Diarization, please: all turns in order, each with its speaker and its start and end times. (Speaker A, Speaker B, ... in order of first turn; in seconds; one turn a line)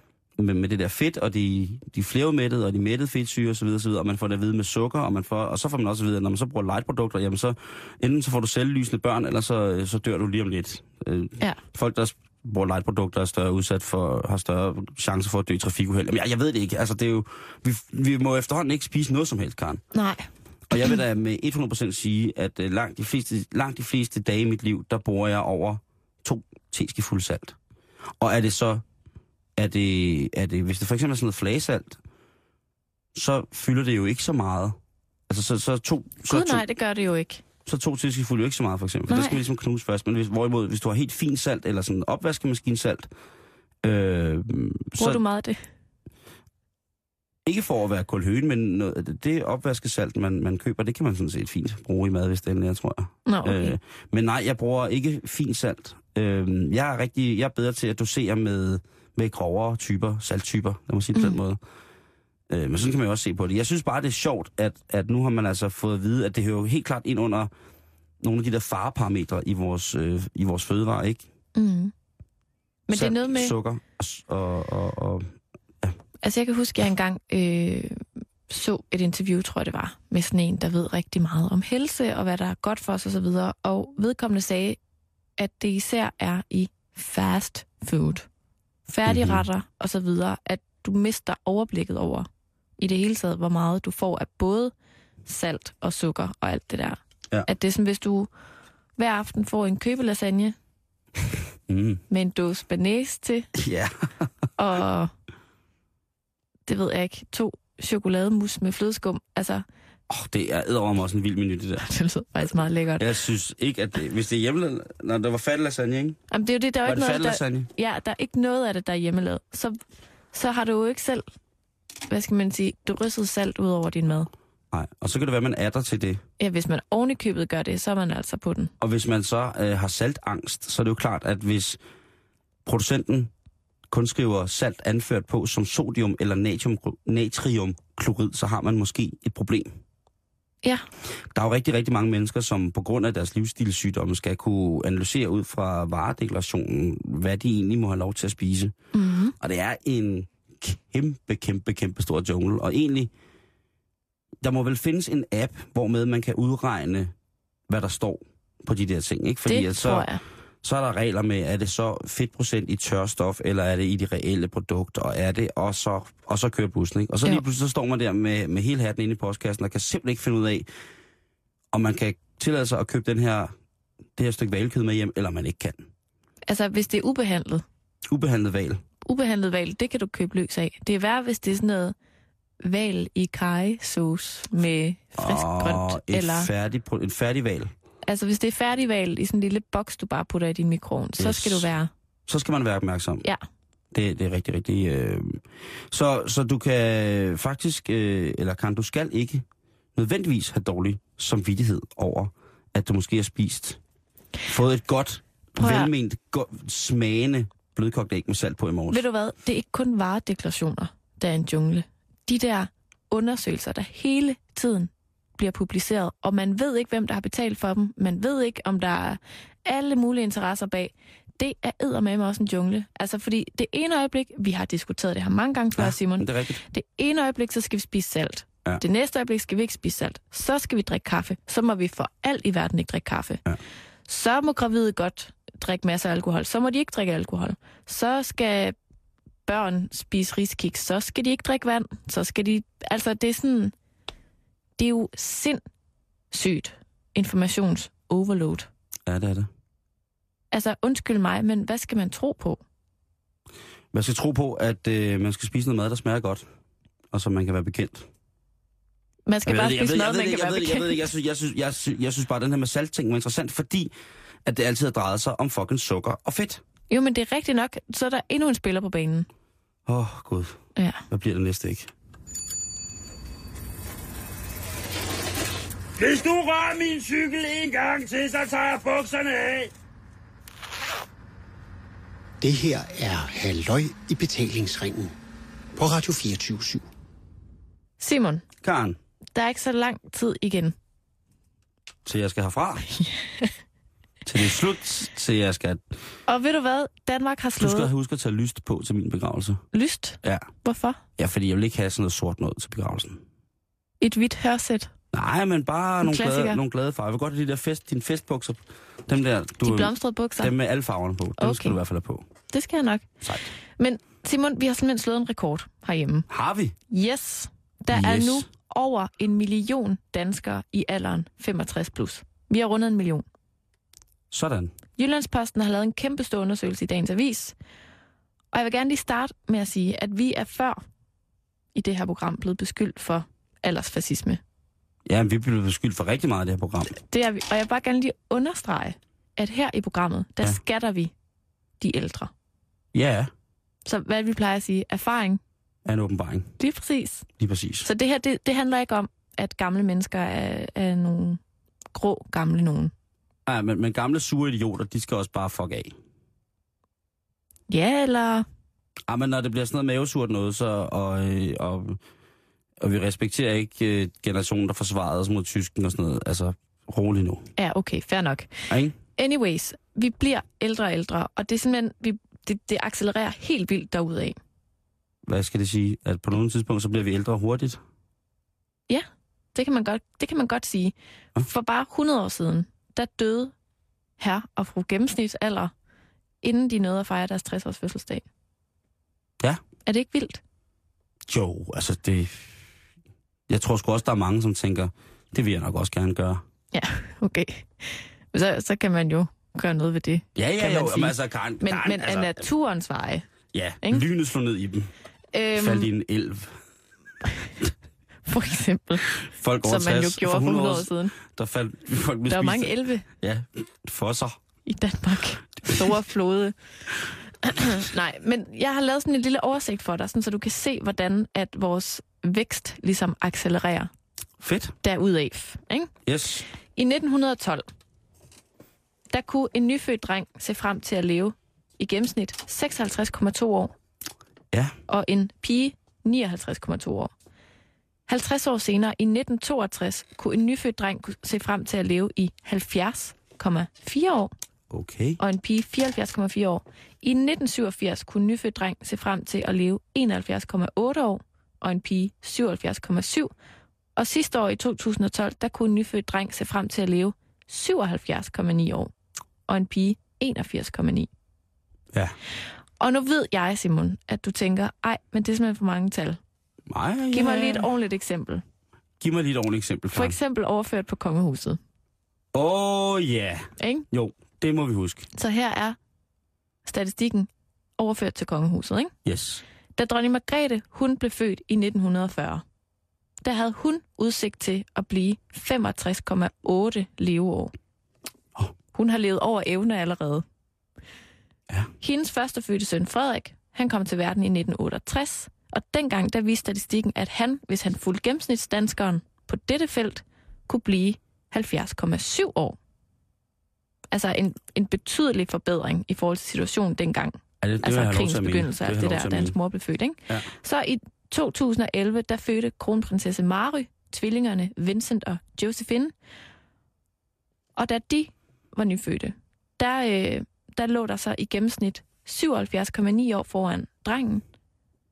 Speaker A: 0.4-19.8
Speaker B: 19.9-20.2
Speaker A: 20.7-27.6
Speaker A: 28.2-28.8
Speaker A: 29.6-32.0
Speaker A: 33.1-34.8
Speaker A: 35.3-36.6
Speaker B: 36.3-37.4
Speaker A: 37.7-43.1
Speaker B: 39.1-39.4
Speaker A: 43.8-45.2
Speaker B: 45.0-45.6
Speaker A: 47.5-61.6
Speaker B: 53.3-53.8
Speaker A: 62.5-67.5
Speaker A: 68.2-71.3
Speaker B: 71.5-71.9
Speaker B: 72.9-73.5
Speaker A: 72.9-76.0
Speaker B: 76.2-84.8
Speaker B: 85.4-88.3
Speaker B: 88.9-94.7
Speaker A: 89.1-89.4
Speaker B: 95.3-98.3
Speaker B: 99.0-100.6
Speaker A: 101.7-102.0
Speaker B: 102.1-103.5
Speaker A: 103.5-104.1
Speaker B: 104.6-105.1
Speaker B: 106.7-109.7
Speaker A: 110.1-111.9
Speaker B: 111.8-113.1
Speaker A: 113.0-116.2
Speaker B: 116.3-119.8
Speaker A: 116.8-117.7
Speaker B: 120.3-121.2
Speaker B: 122.1-124.3
Speaker A: 124.7-126.2
Speaker B: 126.4-128.7
Speaker A: 128.8-131.8
Speaker A: 132.7-133.3
Speaker A: 133.9-139.7
Speaker A: 141.3-148.7
Speaker B: 148.9-149.3
Speaker A: 149.4-153.1
Speaker A: 154.4-157.1
Speaker A: 157.7-160.1
Speaker B: 159.5-160.2
Speaker A: 160.6-170.7
Speaker A: 171.7-173.5
Speaker A: 174.2-175.9
Speaker B: 176.5-177.6
Speaker A: 178.1-178.8
Speaker B: 179.1-181.9
Speaker B: 182.6-186.5
Speaker A: 185.2-187.7
Speaker B: 188.0-191.9
Speaker A: 191.2-191.7
Speaker A: 192.3-193.2
Speaker A: 193.9-199.4
Speaker A: 199.9-203.8
Speaker A: 204.5-209.0
Speaker B: 205.6-205.9
Speaker B: 208.9-233.4
Speaker A: 225.8-226.6
Speaker B: 234.1-238.8
Speaker B: 239.5-243.7
Speaker B: 244.8-245.6
Speaker B: 246.3-248.7
Speaker A: 249.1-249.5
Speaker B: 250.5-252.6
Speaker A: 253.9-256.5
Speaker A: 257.1-258.1
Speaker B: 259.3-261.1
Speaker A: 259.5-263.9
Speaker A: 264.4-266.6
Speaker B: 266.9-269.3
Speaker A: 269.9-271.9
Speaker B: 270.8-271.0
Speaker C: 276.0-279.7
Speaker D: 282.4-285.1
Speaker D: 285.8-286.9
Speaker B: 288.0-288.4
Speaker A: 288.6-289.0
Speaker B: 289.4-290.8
Speaker A: 292.1-292.9
Speaker B: 293.0-293.5
Speaker A: 294.3-295.8
Speaker B: 296.3-297.9
Speaker A: 297.6-299.6
Speaker B: 299.7-301.0
Speaker A: 301.2-303.2
Speaker B: 304.0-304.9
Speaker A: 305.1-312.3
Speaker B: 306.0-306.6
Speaker B: 309.6-310.5
Speaker B: 311.4-311.8
Speaker B: 312.5-313.1
Speaker A: 313.2-313.5
Speaker B: 313.8-316.3
Speaker A: 316.3-316.8
Speaker B: 316.9-323.2
Speaker A: 317.9-318.5
Speaker A: 324.3-324.7
Speaker B: 325.0-327.6
Speaker B: 328.5-330.8
Speaker B: 331.8-334.4
Speaker A: 335.1-337.0
Speaker B: 337.1-341.1
Speaker B: 341.8-342.3
Speaker A: 342.9-343.3
Speaker B: 343.9-345.4
Speaker A: 345.9-346.5
Speaker B: 346.6-347.3
Speaker A: 347.4-347.9
Speaker B: 347.9-351.4
Speaker B: 351.9-352.9
Speaker A: 353.5-355.9
Speaker B: 357.7-358.5
Speaker A: 359.1-362.0
Speaker A: 362.8-367.5
Speaker B: 367.6-368.5
Speaker A: 368.7-369.0
Speaker B: 369.2-374.4
Speaker A: 375.3-377.8
Speaker B: 378.9-383.5
Speaker B: 384.2-385.7
Speaker B: 386.4-388.2
Speaker B: 389.9-390.4
Speaker A: 391.3-392.5
Speaker A: 393.5-396.4
Speaker B: 396.7-403.2
Speaker A: 400.4-402.5
Speaker A: 403.5-404.9
Speaker B: 405.3-405.9
Speaker A: 405.6-406.6
Speaker B: 408.3-409.1
Speaker A: 409.2-414.4
Speaker B: 409.6-411.1
Speaker B: 412.3-413.1
Speaker B: 414.7-416.6
Speaker B: 417.4-423.9
Speaker A: 424.4-424.8
Speaker B: 424.8-425.9
Speaker A: 426.1-426.4
Speaker B: 426.8-427.6
Speaker B: 429.1-433.7
Speaker B: 434.9-437.1
Speaker B: 438.1-444.3
Speaker A: 444.7-445.2
Speaker B: 445.2-453.3
Speaker B: 454.0-458.9
Speaker B: 459.5-461.1
Speaker B: 462.8-466.2
Speaker A: 466.7-467.7
Speaker B: 467.1-468.4
Speaker A: 469.0-470.2
Speaker B: 469.9-471.6
Speaker A: 472.3-475.1
Speaker B: 473.6-473.9
Speaker B: 475.1-475.8
Speaker B: 476.7-478.9
Speaker A: 479.1-479.4
Speaker B: 479.8-482.4
Speaker B: 483.2-487.5
Speaker B: 488.7-490.2
Speaker B: 491.8-502.6
Speaker B: 503.9-515.9
Speaker A: 507.4-509.4
Speaker B: 517.6-524.2